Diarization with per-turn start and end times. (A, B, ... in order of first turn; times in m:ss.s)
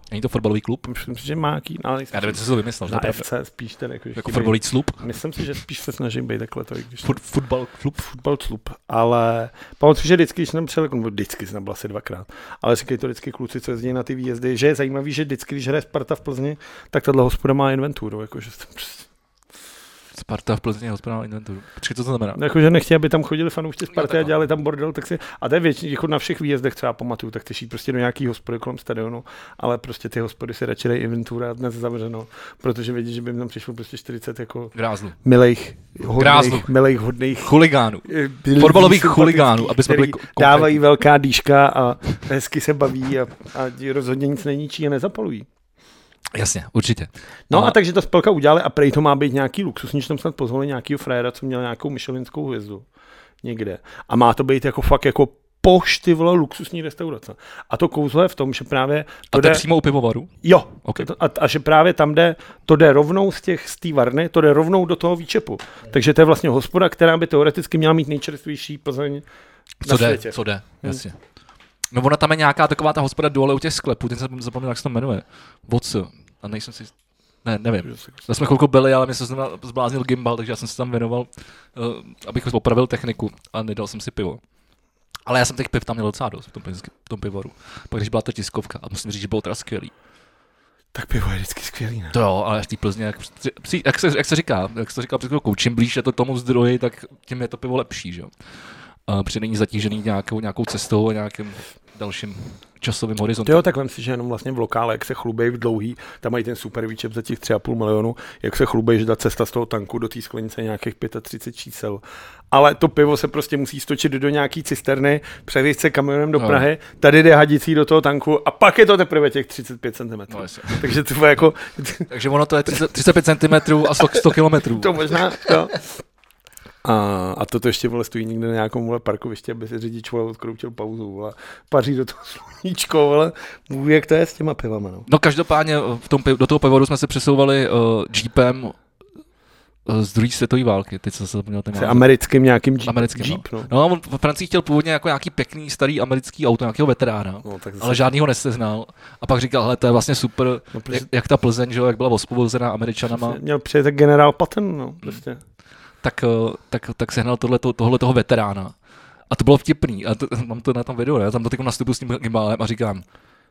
0:00.1-0:00.9 A
0:00.8-0:07.2 B
0:02.1-0:03.3 A
0:04.2-0:05.0 A
0:07.0-0:08.0 A
0:08.0-0:19.1 B
0:20.2-0:22.4 A
0:22.4-0:37.5 B
0:24.0-0:24.3 A
0:34.8-0:35.2 A
0:36.2-0:36.7 A
0:37.4-0:40.8 A
0:38.1-0:45.5 B
0:46.3-0:47.8 A
0:47.5-0:52.8 B
0:53.4-0:59.6 B
0:59.3-1:00.3 A
1:00.4-1:09.2 B
1:09.8-1:11.2 A
1:09.8-1:11.0 B
1:11.9-1:16.9 A
1:17.4-1:24.4 A
1:25.3-1:29.9 A
1:30.9-1:32.2 B
1:32.1-1:38.3 A
1:39.1-1:43.6 A
1:43.4-2:02.1 B
1:56.4-1:56.7 A
2:00.3-2:00.9 A
2:02.1-2:05.5 A
2:04.1-2:05.8 B
2:06.8-2:15.1 B
2:15.1-2:18.8 A
2:19.9-2:22.1 A
2:21.8-2:23.7 B
2:22.8-2:33.4 A
2:27.4-2:28.1 B
2:30.7-2:31.1 B
2:33.1-2:35.4 B
2:36.0-2:38.8 A
2:39.3-2:43.0 A